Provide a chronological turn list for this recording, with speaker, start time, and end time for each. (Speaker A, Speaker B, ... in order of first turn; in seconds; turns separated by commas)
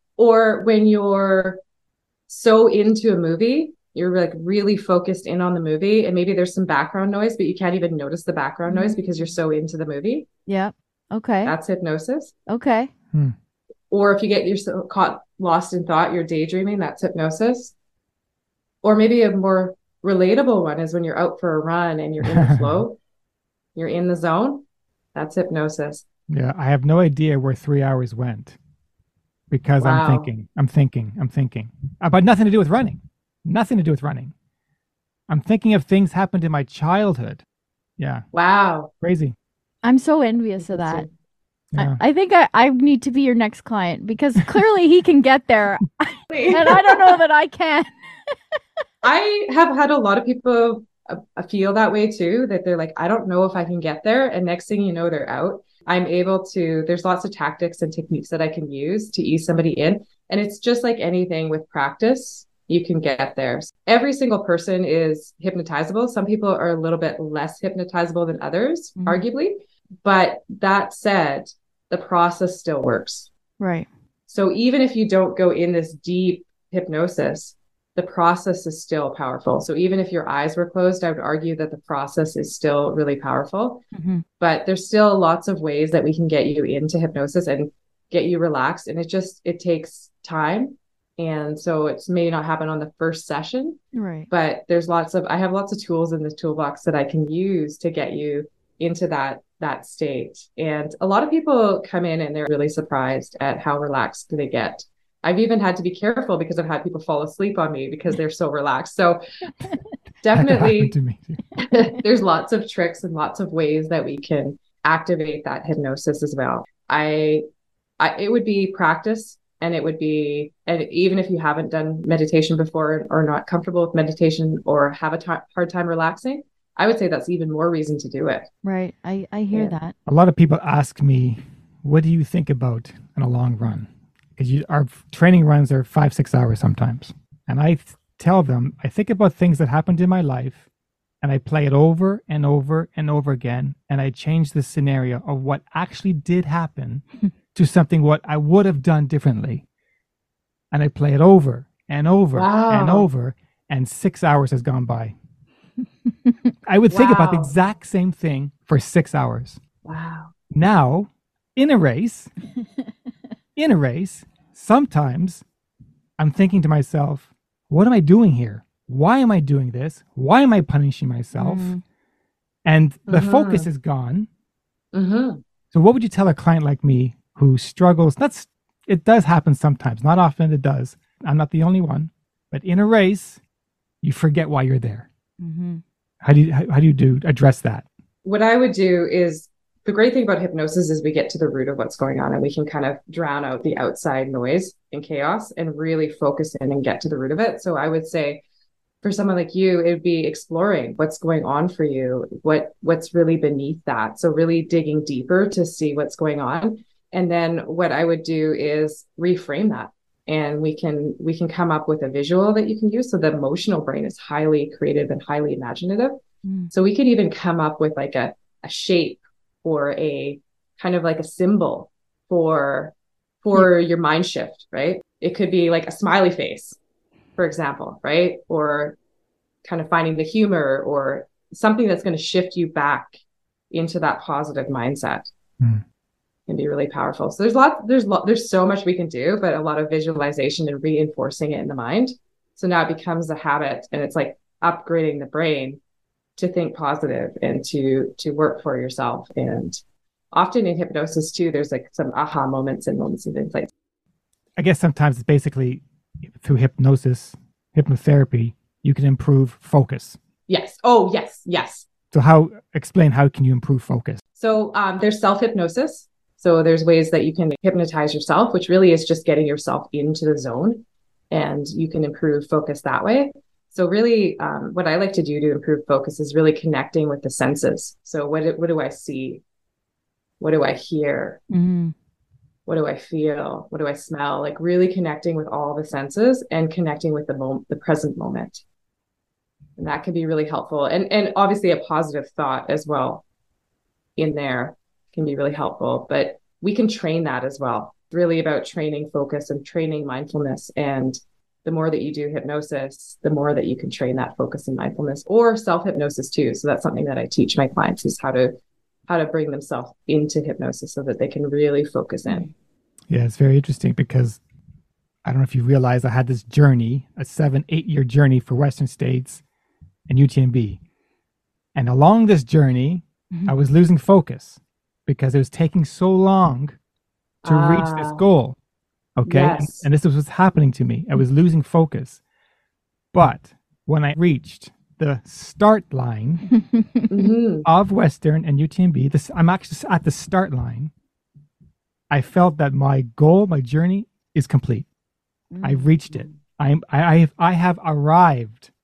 Speaker A: 0.2-1.6, Speaker A: 2.3-10.3, Speaker B: 8.7-9.2, Speaker B: 10.5-11.5, Speaker A: 11.4-12.3, Speaker B: 12.5-12.9, Speaker A: 13.9-17.7, Speaker A: 18.8-23.0, Speaker C: 22.2-22.8, Speaker A: 23.8-24.6, Speaker A: 25.1-26.0, Speaker C: 26.3-28.6, Speaker C: 29.5-34.3, Speaker A: 29.8-30.3, Speaker C: 35.3-37.4, Speaker C: 38.0-38.2, Speaker A: 38.3-38.9, Speaker C: 39.0-39.4, Speaker B: 39.8-41.0, Speaker A: 40.6-41.1, Speaker C: 41.7-42.0, Speaker B: 41.8-48.4, Speaker A: 46.3-47.0, Speaker A: 49.0-73.3, Speaker B: 73.6-73.9, Speaker A: 74.3-83.8, Speaker B: 83.9-84.2, Speaker A: 84.4-109.2, Speaker B: 93.9-94.3, Speaker A: 110.2-110.9, Speaker C: 110.3-111.4, Speaker A: 111.6-117.4, Speaker A: 118.0-128.5, Speaker B: 128.6-129.9, Speaker C: 130.1-140.6, Speaker C: 141.2-147.0, Speaker C: 147.5-149.6, Speaker C: 150.7-155.1, Speaker A: 152.3-153.1, Speaker C: 156.7-159.6, Speaker A: 156.9-157.5, Speaker A: 159.8-160.3, Speaker C: 160.5-162.3, Speaker C: 163.6-165.4, Speaker C: 166.2-171.7, Speaker B: 171.3-171.8, Speaker C: 172.7-174.3, Speaker A: 173.1-173.7, Speaker A: 174.9-175.4, Speaker C: 175.7-183.4, Speaker C: 184.0-185.1, Speaker B: 185.4-185.8, Speaker C: 186.2-187.8, Speaker A: 188.2-198.4, Speaker A: 199.0-226.8, Speaker B: 216.4-216.7, Speaker A: 227.4-228.9, Speaker A: 229.6-233.2, Speaker A: 233.7-235.3, Speaker A: 236.5-245.8, Speaker A: 246.4-249.8, Speaker A: 250.3-253.7, Speaker C: 254.6-260.2, Speaker A: 260.5-261.9, Speaker C: 262.1-264.2, Speaker A: 264.4-279.4, Speaker A: 280.4-281.4, Speaker B: 281.5-281.9, Speaker A: 282.7-288.6, Speaker A: 289.8-293.2, Speaker A: 294.2-308.5, Speaker A: 309.1-312.5, Speaker C: 313.1-314.4, Speaker C: 315.2-319.4, Speaker C: 320.1-320.8, Speaker C: 321.7-326.7, Speaker A: 327.4-328.2, Speaker C: 327.4-328.6, Speaker C: 329.1-332.2, Speaker A: 329.2-329.9, Speaker C: 333.1-336.5, Speaker B: 336.6-336.9, Speaker A: 337.1-337.6, Speaker C: 337.6-340.9, Speaker C: 342.1-344.9, Speaker B: 345.5-345.9, Speaker C: 345.6-348.7